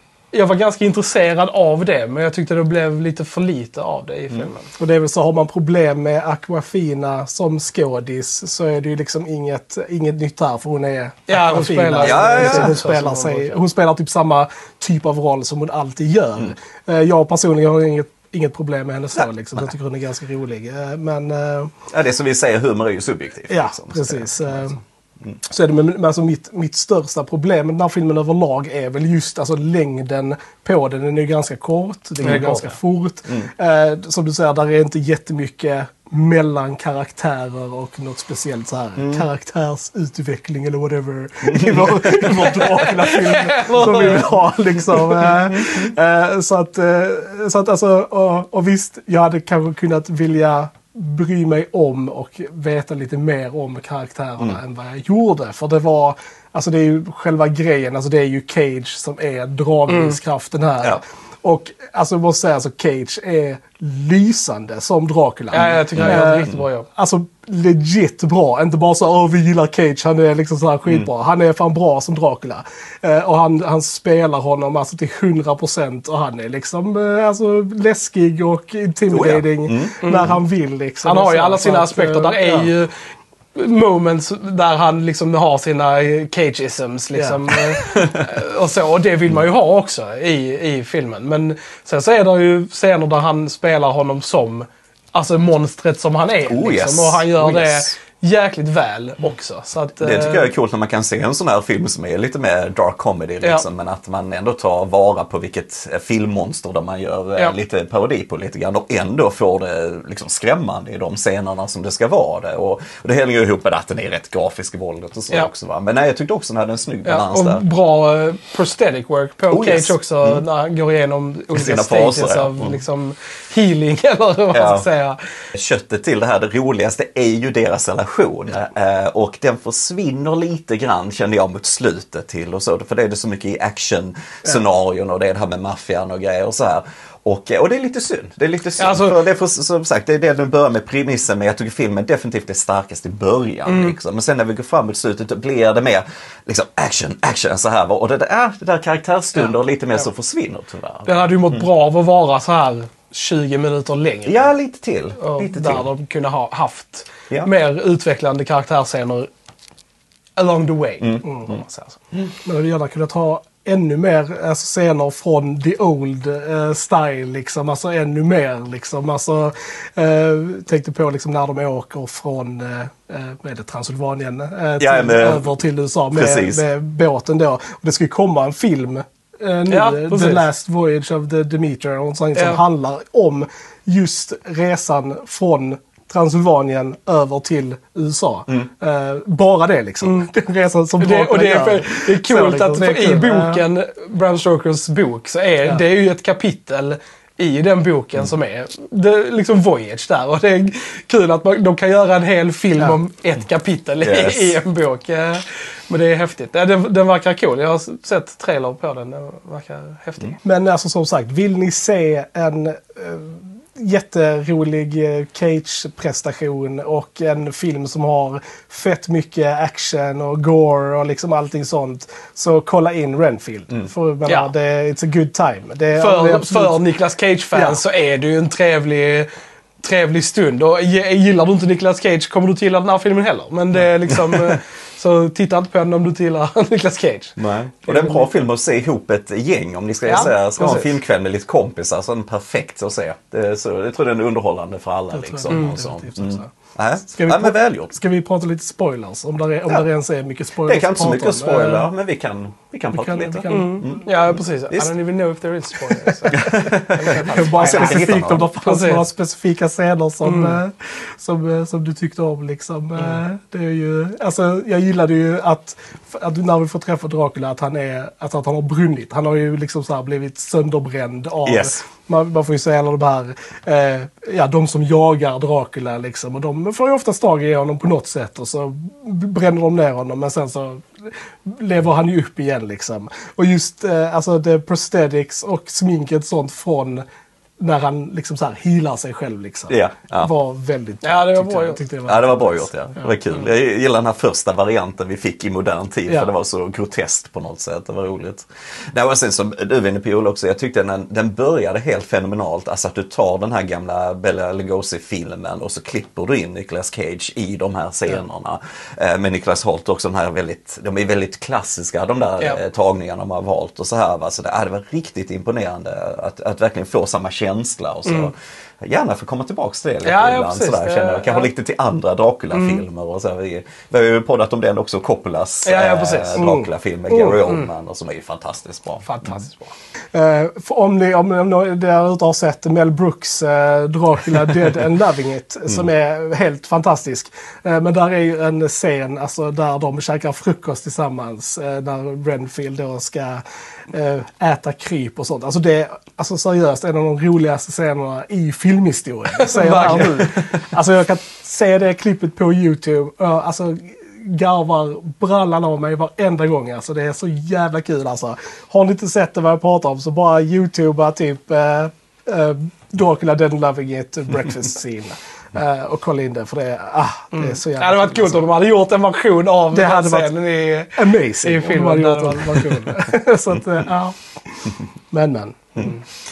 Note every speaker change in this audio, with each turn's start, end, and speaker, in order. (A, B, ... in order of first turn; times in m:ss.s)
0:00.3-0:04.7 A
0:04.8-0:21.7 B
0:11.3-0:13.6 A
0:12.0-0:12.8 C
0:19.2-0:19.7 C
0:21.9-0:25.4 C
0:23.5-0:24.8 B
0:25.4-1:22.7 B
0:32.2-0:32.8 A
0:39.0-0:39.2 C
0:41.4-0:42.0 C
0:42.2-0:45.2 A
0:59.9-1:00.2 A
1:05.5-1:06.9 A
1:05.6-1:06.6 C
1:19.1-1:20.4 C
1:20.0-1:20.3 A
1:21.0-1:22.9 A
1:23.5-1:40.5 A
1:27.1-1:27.4 B
1:36.4-1:37.9 C
1:40.0-1:57.6 C
1:57.0-2:05.2 A
1:59.5-2:00.4 C
2:01.5-2:02.8 C
2:04.5-2:04.9 C
2:05.5-2:31.7 C
2:18.8-2:19.2 A
2:23.6-2:24.0 A
2:29.3-2:30.0 A
2:31.0-2:34.5 A
2:34.2-2:35.9 C
2:35.2-2:39.3 A
2:40.4-2:42.0 A
2:41.0-2:41.5 C
2:42.4-3:13.6 B
2:54.8-2:55.6 C
2:56.1-2:56.6 C
2:59.7-3:00.4 A
3:02.3-3:02.6 A
3:10.0-3:10.3 A
3:11.0-3:30.4 A
3:24.0-3:24.6 C
3:30.4-3:46.8 B
3:44.2-3:44.5 A
3:45.9-3:49.3 A
3:47.5-3:47.8 B
3:49.8-3:57.4 A
3:54.1-3:54.6 C
3:57.4-4:07.9 C
3:57.9-3:58.3 A
4:00.0-4:01.0 A
4:05.1-4:06.5 B
4:05.5-4:05.8 A
4:07.1-4:11.9 B
4:10.6-4:14.9 C
4:12.9-4:14.1 B
4:13.5-4:19.1 A
4:16.1-4:16.5 B
4:16.3-4:18.5 C
4:17.2-4:47.0 B
4:20.2-4:20.6 A
4:31.4-4:31.8 C
4:47.6-4:52.7 B
4:49.7-4:50.3 C
4:51.0-4:51.8 A
4:52.0-5:29.1 C
5:18.0-5:18.3 A
5:20.0-5:21.5 A
5:22.5-5:22.8 A
5:25.6-5:26.5 A
5:26.4-5:26.7 B
5:27.1-5:27.7 A
5:29.0-5:29.7 A
5:30.1-6:08.5 B
5:49.3-5:50.4 A
5:50.0-5:50.4 C
6:07.3-6:12.9 A
6:09.7-6:10.4 B
6:10.9-6:16.0 B